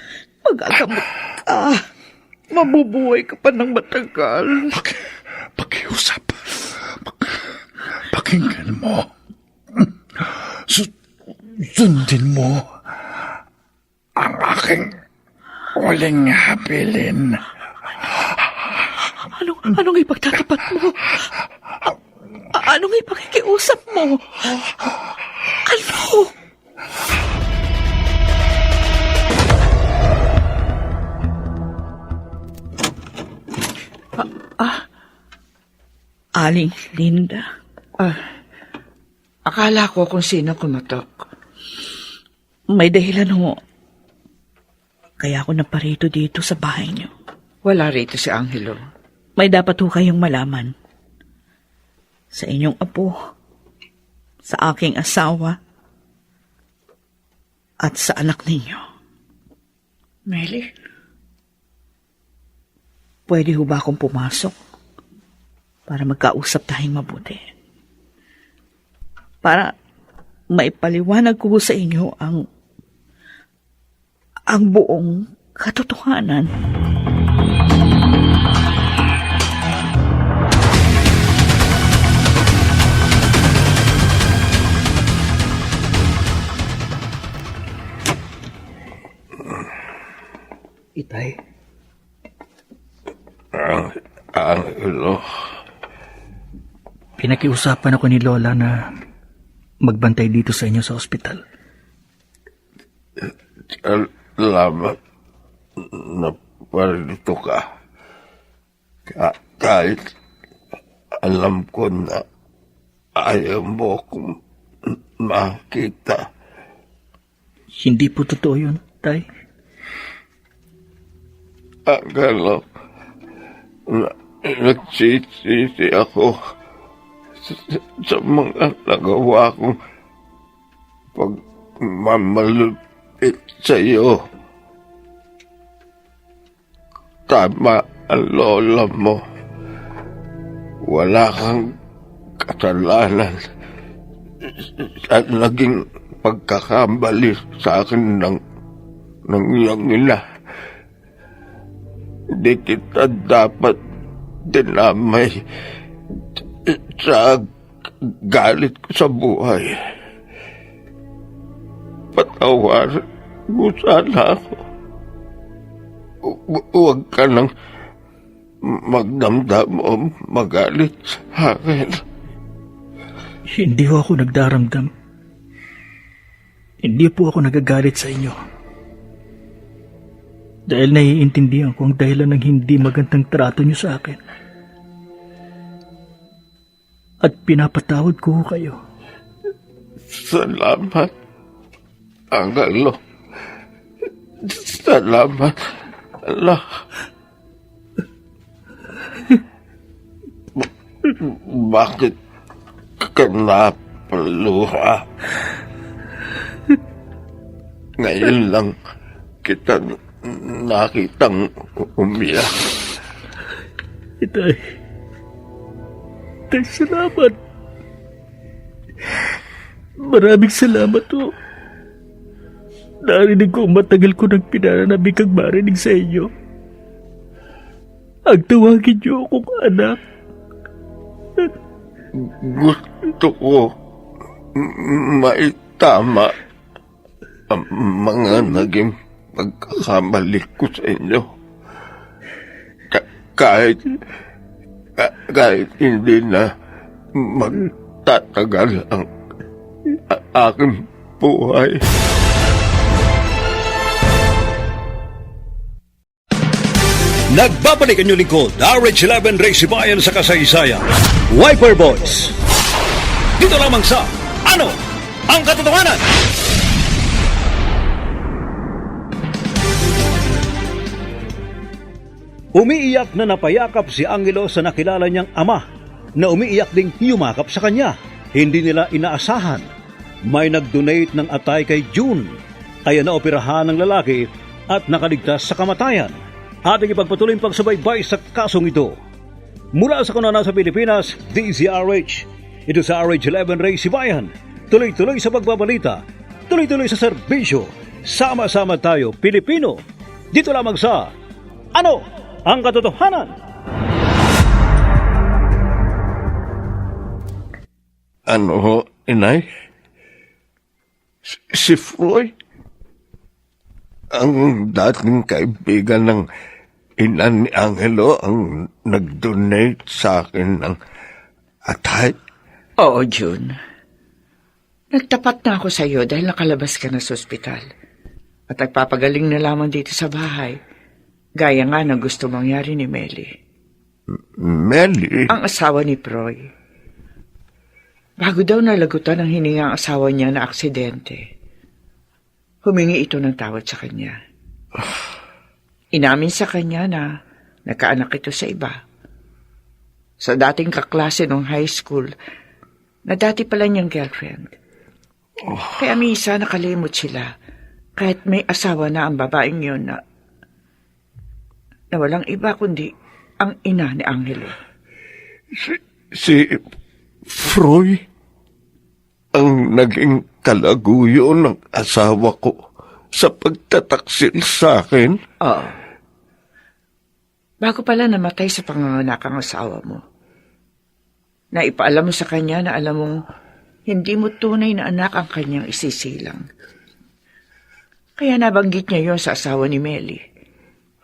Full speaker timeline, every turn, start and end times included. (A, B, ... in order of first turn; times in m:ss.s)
0:00.4-0:01.9 A
0:02.5-0:04.7 A
0:04.7-0:05.0 B
0:05.6-0:07.4 B
0:08.1-0:09.1 B
0:09.8-0:10.9 B
0:11.6-0:12.7 B
0:14.2-0:15.0 B
0:15.7-0:17.4 B
0:19.3-0:21.0 A
0:22.6-0:24.2 A
0:25.7-0:26.3 A
0:34.2-0:34.8 A
0:36.3-0:37.5 A
0:39.5-0:41.0 C
0:42.7-0:43.6 A
0:45.2-0:47.1 A
0:47.7-0:48.8 C
0:49.4-0:50.8 A
0:52.3-0:53.2 A
0:54.4-0:55.6 A
0:57.8-0:58.8 A
1:00.3-1:00.7 C
1:03.3-1:04.5 A
1:05.9-1:07.5 A
1:09.4-1:09.7 A
1:10.5-1:12.5 A
1:14.5-1:16.5 A
1:31.0-1:31.4 D
1:33.6-1:35.2 E
1:37.2-1:38.8 D
1:39.8-1:41.4 D
1:43.8-1:45.0 E
1:45.9-1:47.6 E
1:49.1-1:50.0 E
1:51.2-1:52.2 E
1:53.2-1:54.4 E
1:55.2-1:56.2 E
1:57.8-1:59.2 D
2:01.9-2:02.6 E
2:03.9-2:06.4 E
2:07.5-2:09.8 E
2:11.2-2:14.2 E
2:17.3-2:19.2 E
2:20.8-2:21.8 E
2:22.4-2:23.4 E
2:24.6-2:28.4 E
2:29.3-2:30.2 E
2:32.4-2:33.8 E
2:34.4-2:35.3 E
2:36.7-2:37.4 E
2:38.3-2:39.7 E
2:42.2-2:43.0 E
2:43.5-2:44.6 E
2:46.2-2:47.5 E
2:48.7-2:52.0 E
2:53.5-2:54.9 D
2:56.8-2:58.4 D
3:00.7-3:04.2 D
3:07.2-3:08.8 D
3:10.1-3:11.1 E
3:12.3-3:13.0 E
3:14.4-3:15.6 E
3:16.2-3:16.6 E
3:21.2-3:22.1 E
3:23.0-3:25.0 E
3:28.0-3:28.7 E
3:29.4-3:32.8 E
3:34.2-3:34.6 D
3:36.5-3:37.3 D
3:40.0-3:41.3 D
3:43.0-3:46.3 D
3:48.3-3:50.0 D
3:52.2-3:53.7 E
3:54.6-3:56.3 E
3:57.5-4:01.2 E
4:02.9-4:03.9 E
4:05.0-4:06.5 E
4:07.2-4:09.1 E
4:10.1-4:11.8 E
4:17.3-4:22.4 F
4:23.4-4:24.8 F
4:25.3-4:26.0 F
4:32.6-4:35.6 F
4:36.2-4:39.7 F
4:40.3-4:42.4 F
4:42.9-4:49.0 F
4:49.8-4:59.8 F
5:00.3-5:01.1 F
5:01.8-5:03.4 F
5:08.3-5:09.5 E
5:11.3-5:12.3 E
5:14.2-5:16.2 E
5:17.0-5:20.8 E
5:21.7-5:22.2 E
5:22.8-5:23.5 C
5:24.9-5:27.6 C
5:28.6-5:30.5 C
5:31.4-5:33.2 C
5:34.4-5:35.4 E
5:35.3-5:36.3 C
5:38.2-5:41.2 C
5:42.6-5:44.1 C
5:46.0-5:47.0 C
5:47.7-5:48.8 C
5:50.2-5:52.1 C
5:53.1-5:54.5 C
5:55.5-5:56.0 E
5:56.0-5:57.3 C
5:58.0-6:00.0 C
6:01.9-6:02.9 C
6:03.4-6:04.5 C
6:05.6-6:06.6 E
6:07.3-6:08.0 E
6:09.4-6:12.5 E
6:13.2-6:15.2 E
6:17.6-6:20.0 C
6:21.6-6:23.1 C
6:23.9-6:26.4 C
6:28.2-6:30.2 C